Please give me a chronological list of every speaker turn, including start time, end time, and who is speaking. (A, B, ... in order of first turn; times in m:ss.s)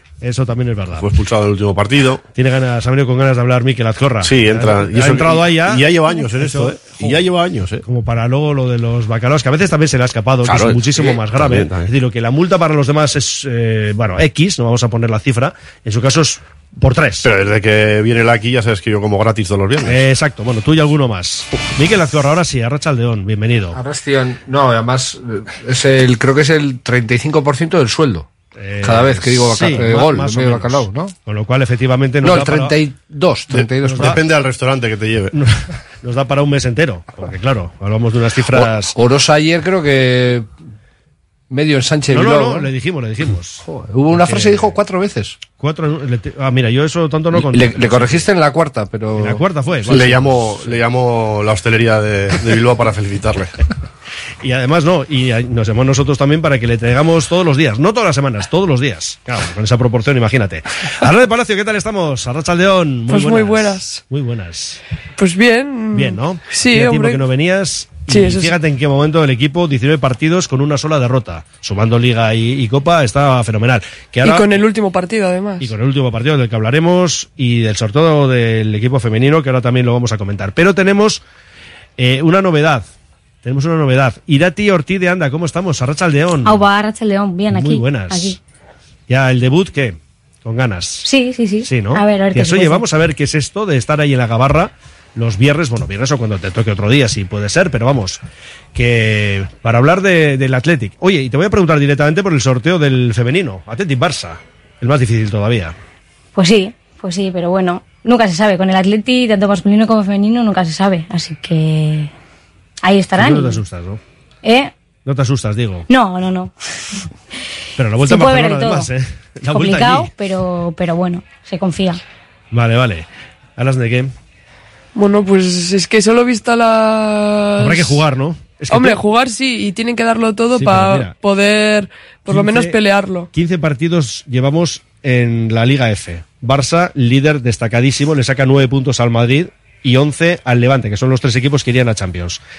0:00.2-0:01.1 A
0:01.0-0:02.2 B
0:02.3-0:07.2 A
0:04.2-0:07.8 B
0:07.8-0:17.3 A
0:10.4-0:11.9 B
0:17.2-0:20.0 B
0:19.8-0:23.8 A
0:23.7-0:28.3 C
0:28.6-0:32.8 A
0:28.8-0:31.1 C
0:32.2-0:34.2 C
0:33.5-0:35.3 B
0:33.8-0:34.2 A
0:35.3-0:39.0 A
0:38.5-0:40.5 C
0:41.5-0:42.7 C
0:42.1-0:44.7 A
0:43.6-0:45.4 C
0:45.6-0:48.2 A
0:47.3-0:50.0 C
0:49.1-0:50.8 A
0:49.9-0:53.5 B
0:54.4-1:04.8 A
1:03.1-1:04.0 D
1:05.2-1:07.2 D
1:05.9-1:14.5 A
1:08.1-1:08.5 D
1:14.2-1:15.7 D
1:15.6-1:21.2 A
1:22.0-1:22.9 A
1:23.4-1:26.6 A
1:26.4-1:28.4 E
1:27.5-1:28.4 A
1:29.1-1:31.0 A
1:31.0-1:32.8 E
1:31.6-1:38.2 A
1:38.7-1:45.7 A
1:46.3-1:52.1 E
1:52.8-1:53.6 E
1:53.2-1:54.0 A
1:54.4-1:54.7 E
1:55.0-1:55.8 A
1:55.9-1:56.5 E
1:57.8-2:00.1 A
1:58.0-1:58.9 E
1:59.5-2:02.0 E
2:02.5-2:04.1 A
2:04.9-2:08.0 D
2:07.6-2:09.0 A
2:08.7-2:13.3 D
2:10.6-2:11.1 A
2:12.3-2:12.8 A
2:13.3-2:22.4 A